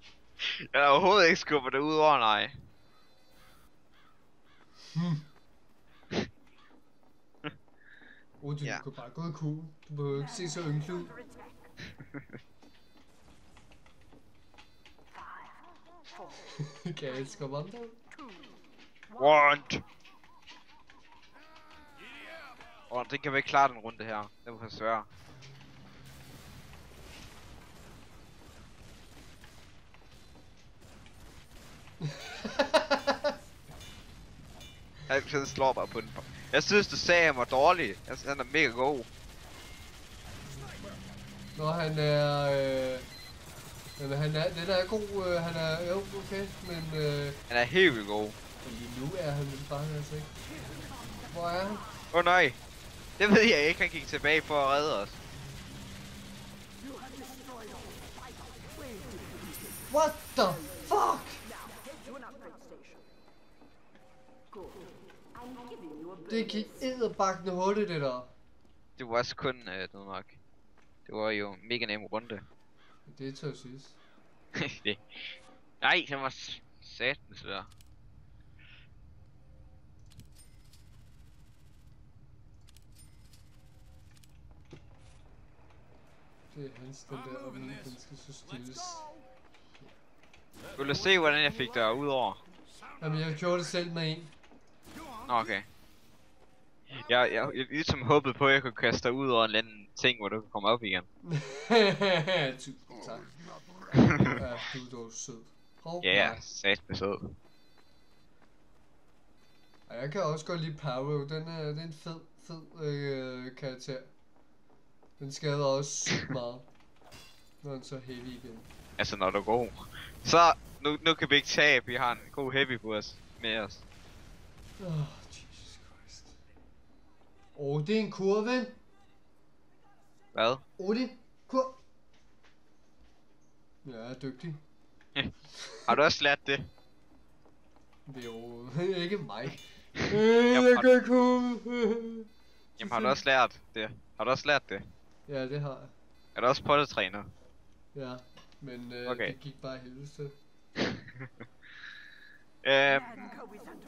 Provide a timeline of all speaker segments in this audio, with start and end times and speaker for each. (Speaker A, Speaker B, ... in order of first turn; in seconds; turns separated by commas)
Speaker A: 0.4-2.5, Speaker B: 5.0-5.2, Speaker B: 8.4-11.2, Speaker B: 16.4-18.0, Speaker A: 19.1-19.8, Speaker A: 22.9-25.1, Speaker B: 32.0-33.3, Speaker A: 35.1-39.1, Speaker B: 41.6-43.1, Speaker B: 44.0-47.4, Speaker A: 47.5-48.4, Speaker B: 48.6-50.3, Speaker B: 51.3-51.9, Speaker A: 52.1-52.6, Speaker A: 53.2-55.2, Speaker B: 59.9-61.5, Speaker B: 66.3-68.3, Speaker A: 69.0-70.4, Speaker A: 71.1-72.5, Speaker B: 73.1-74.0, Speaker A: 74.6-77.7, Speaker B: 86.5-89.1, Speaker A: 90.8-92.4, Speaker B: 93.0-94.3, Speaker A: 95.3-95.7, Speaker A: 96.9-101.1, Speaker B: 101.3-103.3, Speaker A: 104.0-104.4, Speaker B: 104.2-106.4, Speaker A: 106.0-107.4, Speaker B: 109.9-114.1, Speaker B: 115.2-116.7, Speaker B: 117.6-118.7, Speaker A: 119.0-123.8, Speaker B: 124.8-126.3, Speaker B: 127.6-128.8, Speaker A: 130.3-130.6, Speaker B: 130.8-131.8, Speaker B: 133.8-134.6, Speaker B: 135.6-135.9, Speaker A: 135.9-136.7, Speaker B: 138.1-142.3, Speaker A: 140.5-140.9, Speaker A: 142.8-144.9, Speaker B: 142.8-143.2, Speaker B: 145.3-145.9, Speaker A: 146.4-147.3, Speaker B: 147.9-150.3, Speaker A: 149.1-149.3, Speaker A: 150.8-151.3, Speaker A: 152.6-153.2